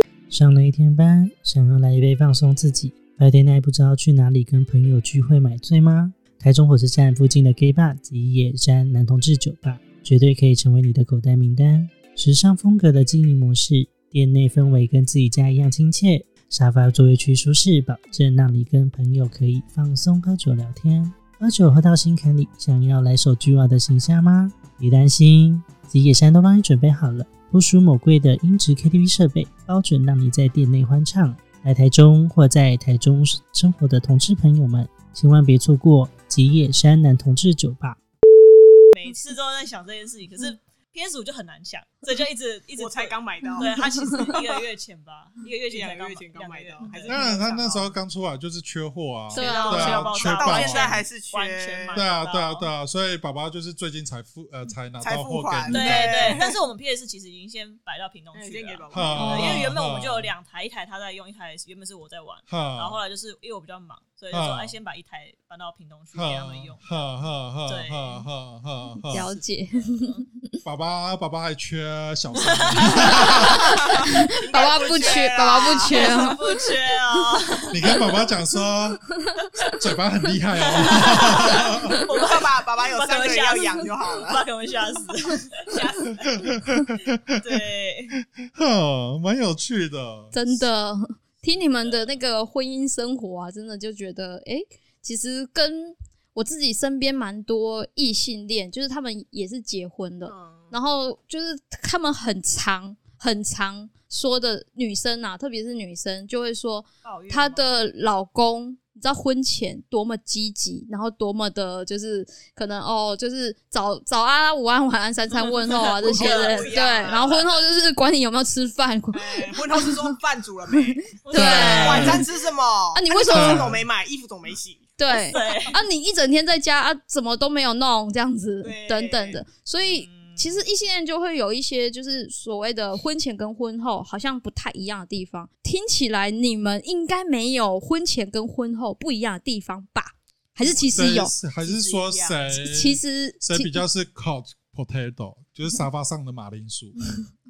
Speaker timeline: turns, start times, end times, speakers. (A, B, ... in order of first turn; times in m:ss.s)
0:00.3-0:38.0 A
0:38.9-0:47.2 B
0:42.8-0:44.6 C
0:43.6-0:44.2 D
0:45.7-0:48.0 C
0:47.1-0:51.0 E
0:49.3-0:52.7 B
0:49.3-0:50.1 D
0:49.3-0:52.0 C
0:51.9-0:56.4 E
0:55.0-0:56.6 C
0:55.7-1:06.9 B
0:58.3-0:59.7 C
0:58.9-1:00.3 E
0:59.1-0:59.5 D
1:02.5-1:03.0 E
1:04.3-1:04.8 E
1:06.1-1:09.3 E
1:07.6-1:08.3 B
1:09.1-1:10.6 D
1:09.8-1:10.2 B
1:10.6-1:13.7 E
1:12.3-1:13.6 B
1:13.1-1:16.4 C
1:13.4-1:16.4 D
1:15.9-1:18.0 B
1:17.7-1:19.0 E
1:19.8-1:22.0 E
1:20.6-1:25.8 B
1:22.1-1:24.4 C
1:25.6-1:26.5 C
1:26.4-1:27.4 E
1:27.4-1:28.2 B
1:28.3-1:30.4 E
1:30.3-2:00.1 D
1:40.2-1:40.8 C
1:47.0-1:47.7 B
1:55.6-1:57.5 C
1:55.6-1:57.3 B
1:59.1-2:05.5 C
2:00.9-2:02.2 D
2:01.2-2:02.2 B
2:01.3-2:02.2 E
2:02.9-2:03.7 D
2:03.3-2:03.8 E
2:05.0-2:21.3 D
2:05.1-2:05.8 B
2:08.6-2:09.4 C
2:09.8-2:10.7 B
2:20.6-2:22.6 C
2:21.0-2:27.0 E
2:22.6-2:23.8 D